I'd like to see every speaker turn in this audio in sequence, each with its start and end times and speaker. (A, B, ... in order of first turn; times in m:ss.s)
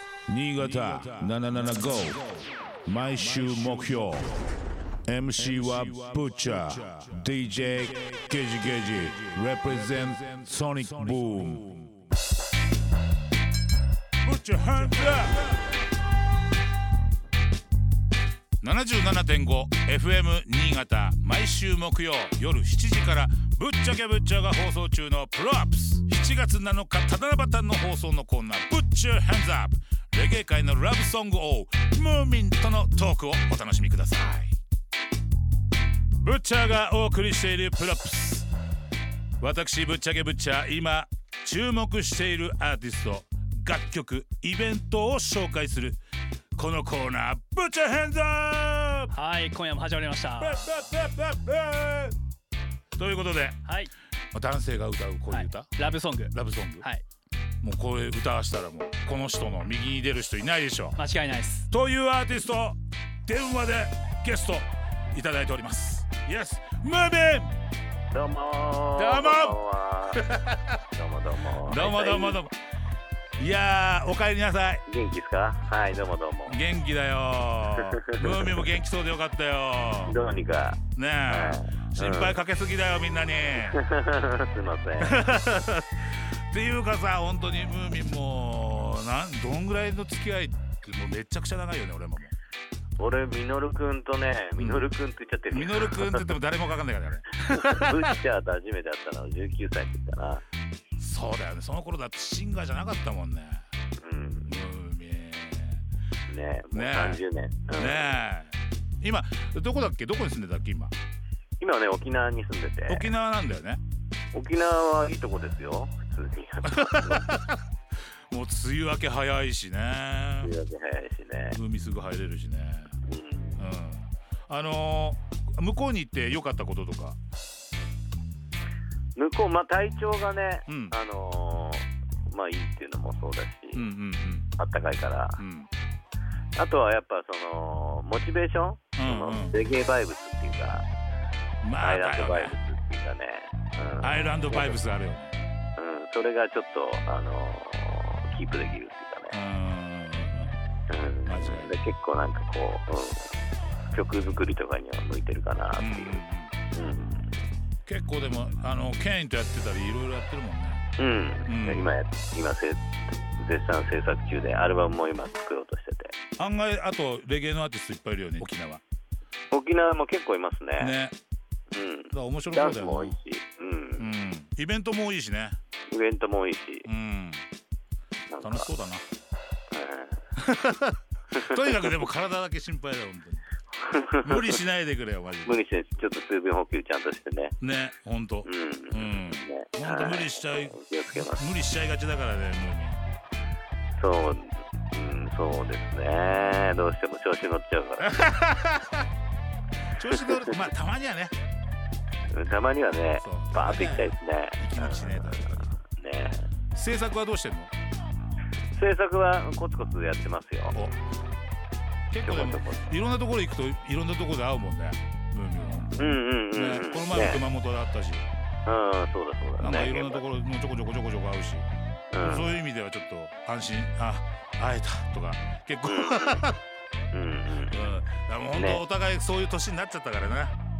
0:00.3-0:02.2 A
0:00.6-0:01.4 B
0:02.8-0:04.4 A
0:05.1-0:11.8 A
0:05.6-0:07.2 B
0:10.5-0:11.9 B
0:14.2-0:15.5 B
0:18.6-0:34.6 B
0:36.2-0:38.5 B
0:39.4-0:46.0 B
0:46.6-0:49.1 B
0:49.1-0:50.7 C
0:50.4-0:52.2 B
0:53.0-0:53.6 B
0:53.6-0:53.9 C
0:54.3-0:55.7 B
0:55.3-0:57.0 C
0:56.3-0:56.8 B
0:57.6-1:01.0 B
1:01.0-1:01.7 C
1:01.7-1:07.5 B
1:08.1-1:10.2 D
1:09.0-1:09.6 B
1:10.1-1:10.8 B
1:10.9-1:12.4 D
1:11.6-1:12.5 B
1:13.4-1:14.8 B
1:14.8-1:16.6 D
1:16.5-1:20.2 B
1:17.7-1:18.7 D
1:20.0-1:22.4 D
1:20.9-1:23.8 B
1:23.7-1:25.3 D
1:25.0-1:32.3 B
1:33.0-1:36.4 D
1:34.6-1:34.9 B
1:35.5-1:37.9 B
1:37.4-1:40.4 D
1:41.0-1:43.6 B
1:44.0-1:44.5 D
1:44.5-1:45.8 B
1:46.3-1:48.2 D
1:46.7-1:47.2 B
1:47.8-1:50.9 B
1:51.6-1:53.1 D
1:52.9-1:53.8 B
1:54.3-1:57.4 D
1:56.7-1:57.6 B
1:58.3-2:00.5 B
2:00.4-2:01.6 D
2:01.5-2:02.9 B
2:03.1-2:03.6 D
2:03.6-2:07.2 B
2:09.2-2:13.8 D
2:10.7-2:10.9 B
2:13.8-2:14.5 B
2:14.6-2:15.4 D
2:15.4-2:15.7 B
2:16.6-2:20.8 D
2:19.0-2:19.6 B
2:21.6-2:22.5 B
2:21.8-2:24.8 D
2:24.0-2:25.4 B
2:25.8-2:29.4 D
2:29.3-2:30.5 B
2:30.9-2:33.3 D
2:31.2-2:31.7 B
2:33.9-2:37.3 D
2:35.8-2:36.5 B
2:37.8-2:40.8 B
2:41.0-2:46.2 D
2:41.5-2:41.9 B
2:46.4-2:48.8 B
2:49.5-2:51.0 D
2:50.8-2:51.1 B
2:51.7-2:54.1 D
2:52.1-2:53.2 B
2:54.0-2:55.6 B
2:55.9-2:56.8 D
2:56.8-2:57.4 B
2:58.3-2:58.7 D
2:58.4-2:59.1 B
2:59.7-3:00.2 D
3:00.4-3:03.4 B
3:01.3-3:01.8 D
3:03.8-3:04.4 D
3:04.2-3:05.6 B
3:05.4-3:07.5 D
3:07.6-3:10.8 B
3:08.4-3:11.4 D
3:11.3-3:13.0 B
3:14.0-3:18.2 D
3:18.0-3:19.1 B
3:19.9-3:21.3 B
3:20.1-3:20.6 D
3:22.3-3:26.5 D
3:23.2-3:25.7 B
3:26.7-3:27.7 B
3:28.7-3:30.7 D
3:32.1-3:38.3 B
3:32.2-3:32.8 D
3:36.0-3:37.4 D
3:38.7-3:40.2 D
3:39.6-3:41.7 B
3:42.1-3:42.5 D
3:42.2-3:46.6 B
3:45.8-3:46.4 D
3:47.1-3:48.8 D
3:47.7-3:50.5 B